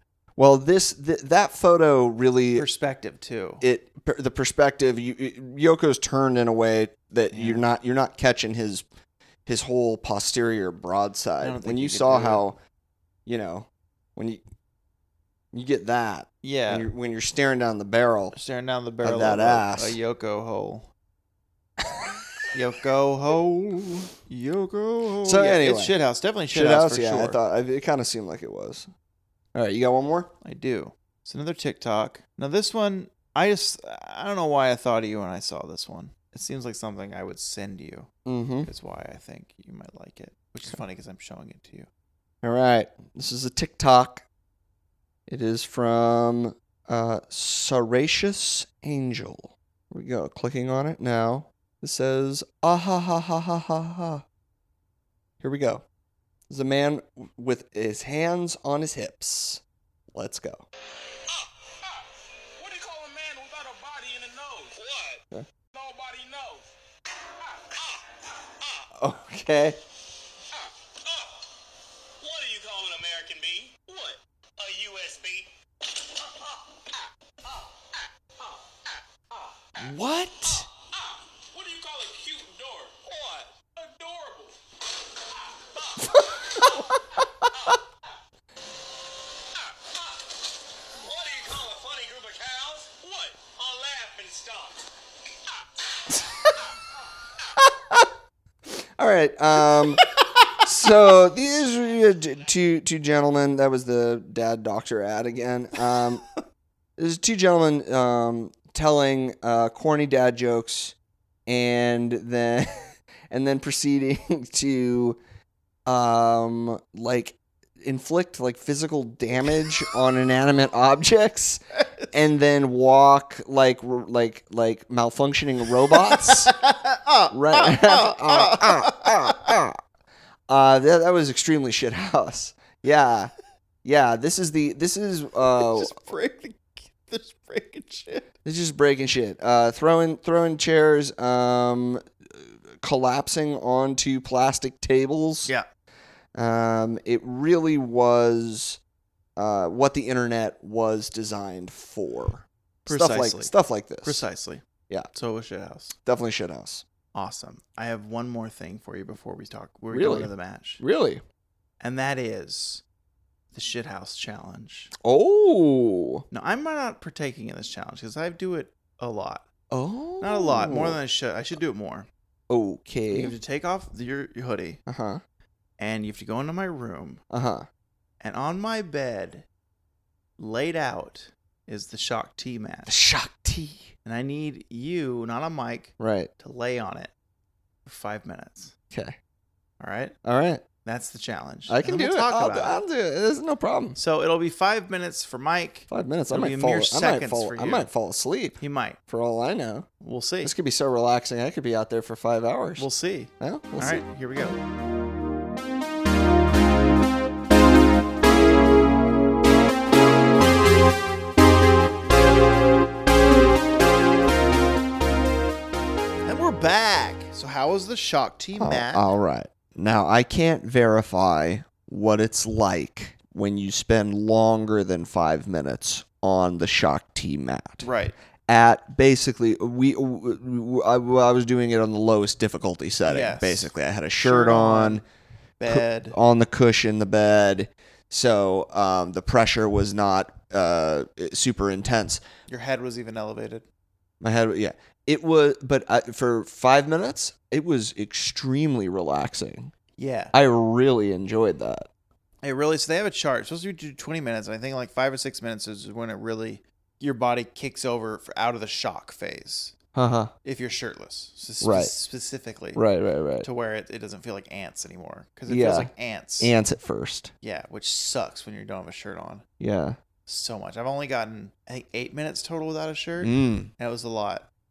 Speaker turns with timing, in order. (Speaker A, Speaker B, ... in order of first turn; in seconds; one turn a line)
Speaker A: 0.4-2.6
Speaker B: 2.5-3.6
Speaker A: 3.6-8.8
Speaker B: 7.3-7.6
Speaker A: 9.4-12.6
Speaker B: 11.4-12.4
Speaker A: 13.2-14.4
Speaker A: 15.5-18.3
Speaker B: 16.4-16.9
Speaker B: 18.3-20.9
Speaker A: 19.0-20.0
Speaker A: 21.8-22.1
Speaker B: 22.5-27.4
Speaker A: 25.2-25.9
Speaker A: 26.5-28.9
Speaker A: 29.5-30.3
Speaker B: 30.4-38.1
Speaker A: 38.2-38.7
Speaker B: 38.6-41.9
Speaker A: 42.4-44.2
Speaker A: 45.3-54.2
Speaker A: 55.4-55.8
Speaker A: 56.5-59.6
Speaker A: 60.1-60.6
Speaker C: 61.3-62.1
Speaker C: 62.6-66.7
Speaker C: 67.4-68.9
Speaker A: 69.0-69.8
Speaker C: 70.5-71.5
Speaker C: 72.2-79.9
Speaker A: 79.8-80.7
Speaker C: 80.5-84.6
Speaker C: 85.4-87.8
Speaker A: 86.1-86.8
Speaker C: 89.5-90.2
Speaker C: 91.0-94.9
Speaker A: 97.6-98.1
Speaker A: 98.7-100.1
Speaker A: 100.6-106.2
Speaker A: 107.0-110.9
Speaker A: 111.5-115.2
Speaker A: 115.8-126.5
Speaker B: 125.9-129.5
Speaker A: 127.3-129.8
Speaker A: 130.5-133.3
Speaker A: 133.8-135.9
Speaker B: 135.5-138.2
Speaker A: 138.4-145.5
Speaker A: 146.3-148.8
Speaker A: 149.3-154.2
Speaker B: 152.8-153.5
Speaker B: 154.0-155.9
Speaker A: 156.0-156.8
Speaker B: 157.1-160.8
Speaker A: 159.9-161.2
Speaker B: 161.8-162.8
Speaker B: 163.5-164.9
Speaker A: 165.0-166.2
Speaker B: 166.3-169.5
Speaker A: 169.7-171.0
Speaker B: 170.2-172.1
Speaker A: 172.5-173.3
Speaker B: 173.1-174.8
Speaker A: 174.9-175.2
Speaker B: 175.8-177.2
Speaker A: 177.3-177.7
Speaker B: 178.2-179.4
Speaker B: 180.4-182.9
Speaker A: 182.8-183.9
Speaker B: 184.0-187.1
Speaker A: 186.0-186.3
Speaker B: 187.8-188.7
Speaker A: 188.9-189.2
Speaker B: 189.8-190.1
Speaker A: 190.2-190.6
Speaker B: 190.8-192.8
Speaker A: 191.7-194.0
Speaker B: 193.9-197.9
Speaker A: 195.9-199.9
Speaker B: 198.6-199.0
Speaker B: 200.0-200.5
Speaker A: 200.4-202.8
Speaker B: 202.8-204.6
Speaker A: 203.4-204.0
Speaker B: 216.2-219.1
Speaker A: 218.6-227.9
Speaker B: 227.8-228.1
Speaker A: 228.5-235.0
Speaker B: 233.1-235.0
Speaker B: 235.6-236.2
Speaker A: 235.7-242.2
Speaker B: 242.5-243.6
Speaker A: 244.2-249.7
Speaker B: 250.0-250.3
Speaker A: 250.3-251.9
Speaker B: 252.4-259.7
Speaker A: 259.9-260.3
Speaker B: 260.4-262.8
Speaker A: 261.6-261.9
Speaker A: 262.7-263.5
Speaker B: 263.4-266.5
Speaker A: 265.5-267.3
Speaker B: 267.4-269.4
Speaker A: 269.6-270.0
Speaker B: 270.3-274.4
Speaker A: 273.2-273.7